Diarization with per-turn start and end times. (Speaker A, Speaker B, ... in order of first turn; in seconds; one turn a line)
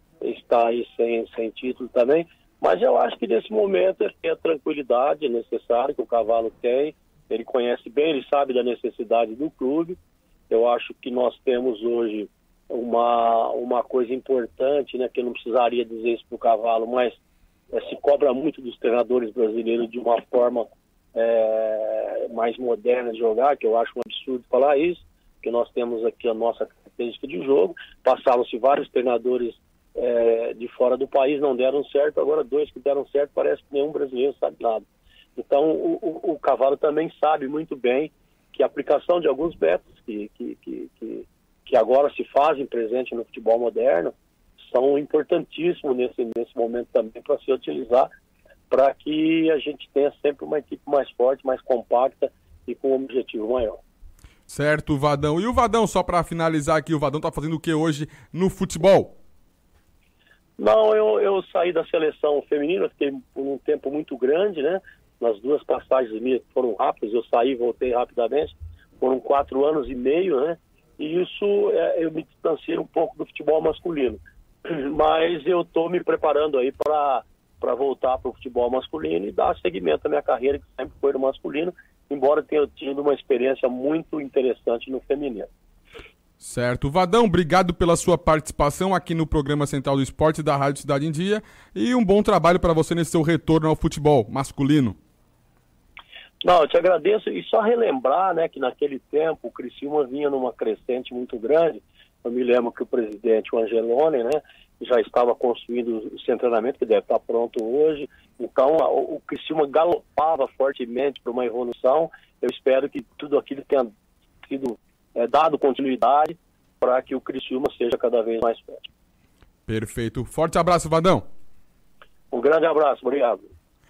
Speaker A: 0.2-10.0
Speaker A: 10.5-17.2
Speaker A: 17.7-34.8
Speaker A: 35.4-44.1
Speaker A: 44.7-48.1
Speaker A: 48.7-53.8
Speaker B: 54.5-59.2
Speaker A: 60.6-85.5
Speaker B: 86.4-95.0
Speaker A: 96.4-113.9
Speaker A: 114.4-118.8
Speaker B: 119.7-121.3
Speaker A: 122.3-123.5